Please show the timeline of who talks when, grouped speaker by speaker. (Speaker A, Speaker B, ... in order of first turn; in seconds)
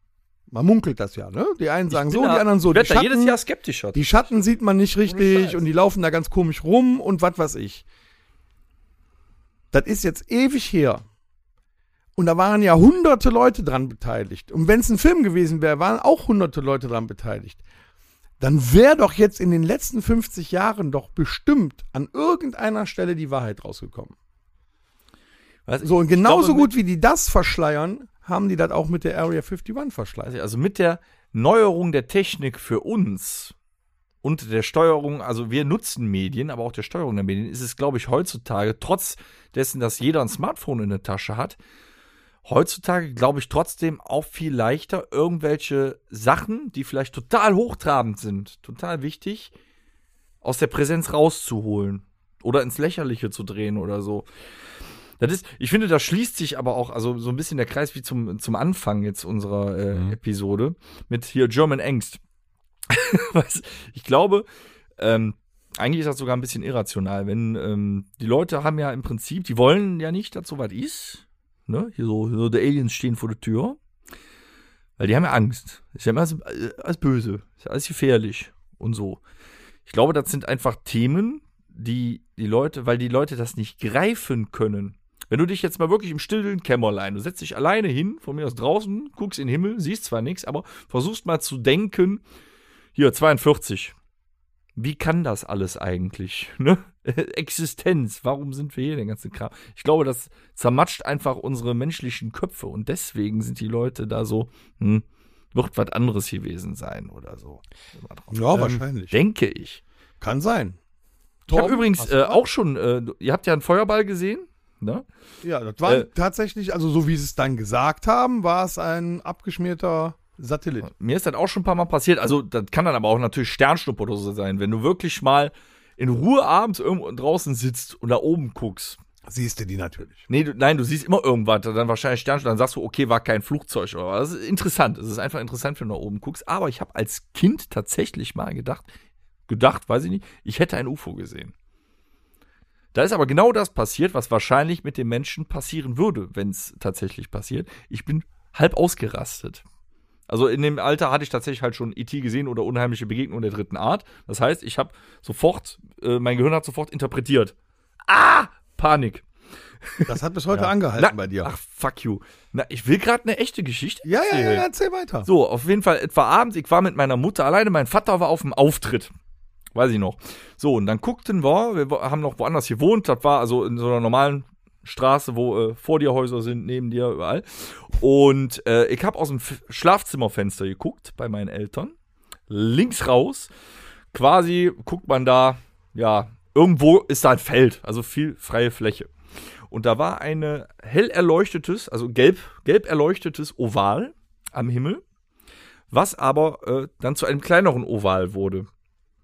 Speaker A: 0.5-3.4, 3.9-7.8, 9.7-11.1, 12.2-17.6, 18.4-24.1, 25.8-30.3, 108.3-109.2, 110.2-110.8, 111.5-112.4, 115.4-120.9, 129.3-130.3, 160.1-161.5, 164.1-165.3
Speaker B: 1.9-4.4, 5.0-5.6, 25.7-26.7, 30.3-33.5, 34.2-41.6, 42.5-49.5, 50.4-54.3, 55.2-62.2, 62.9-64.5, 65.0-73.8, 75.0-79.2, 79.9-92.2, 93.0-94.0, 94.8-108.5, 109.1-109.8, 111.5-115.0, 120.8-129.0, 130.3-138.9, 139.5-141.5, 142.9-149.6, 150.3-157.5, 158.1-159.3, 159.8-160.1, 160.9-164.7, 165.2-169.1, 169.8-181.9, 182.5-183.5, 184.1-189.1, 189.7-195.0, 195.9-198.7